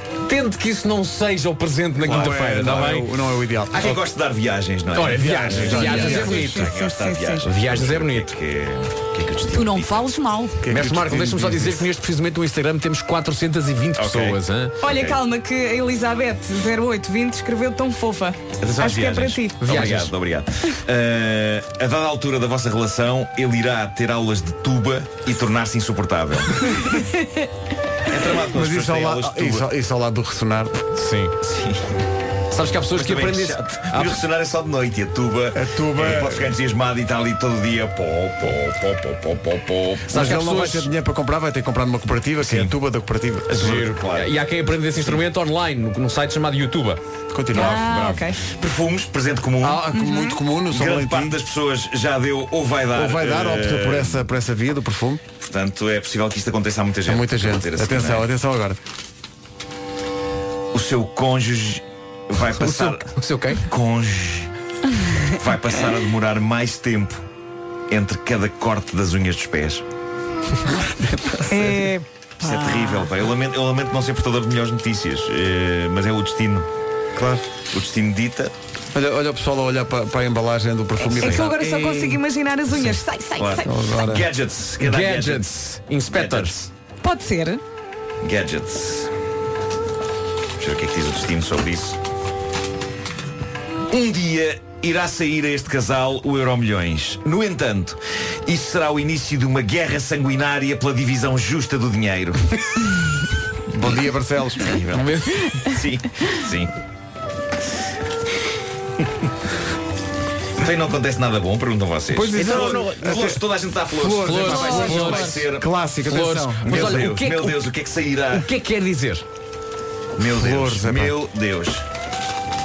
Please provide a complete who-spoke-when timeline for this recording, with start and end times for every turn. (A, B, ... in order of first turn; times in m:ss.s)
0:00.2-0:03.1 A
0:02.0-0:04.0 B
0:02.1-0:03.0 C
0:03.7-0:10.1 C
0:04.9-0:06.7 A
0:05.3-0:06.4 B
0:05.8-0:07.5 D
0:07.4-0:08.3 A
0:09.5-0:10.6 D
0:10.6-0:11.9 B
0:10.7-0:14.8 A
0:14.0-0:15.2 C
0:14.8-0:19.6 D
0:18.6-0:26.7 C
0:19.6-0:20.2 A
0:26.8-0:27.1 D
0:28.1-0:29.7 C
0:28.5-0:30.8 B
0:31.0-0:31.4 A
0:31.4-0:31.8 C
0:32.5-0:34.2 A
0:32.9-0:40.1 C
0:35.5-0:36.5 B
0:40.1-0:40.9 A
0:40.1-0:43.9 B
0:42.4-0:42.8 C
0:43.5-0:44.4 C
0:43.5-0:47.0 A
0:47.3-0:47.9 B
0:47.5-0:48.4 D
0:47.6-0:49.9 C
0:49.6-0:51.4 B
0:49.9-0:50.4 D
0:50.7-0:54.2 C
0:52.9-0:55.2 B
0:55.5-0:58.3 C
0:57.1-0:58.8 B
1:00.7-1:03.1 C
1:02.5-1:03.7 A
1:03.7-1:04.5 C
1:05.3-1:07.2 C
1:07.9-1:09.8 C
1:10.9-1:11.8 B
1:11.5-1:13.1 D
1:12.4-1:16.7 C
1:17.2-1:17.5 B
1:17.7-1:18.5 C
1:18.9-1:22.2 B
1:21.2-1:23.7 D
1:21.2-1:21.5 A
1:23.4-1:25.5 C
1:23.6-1:24.3 B
1:24.8-1:26.7 A
1:26.1-1:26.6 C
1:27.0-1:27.6 D
1:28.2-1:29.1 C
1:30.6-1:32.0 C
1:33.9-1:42.8 C
1:43.7-1:45.0 B
1:44.6-1:45.0 C
1:45.0-1:45.7 A
1:45.7-1:46.7 C
1:50.6-1:55.6 C
1:52.1-1:53.4 B
1:52.3-1:53.1 A
1:53.9-1:57.1 B
1:54.2-1:55.5 A
1:54.5-1:55.4 D
1:56.0-1:57.7 A
1:56.6-1:58.5 C
1:58.3-1:59.2 A
2:00.2-2:01.8 C
2:00.2-2:01.2 B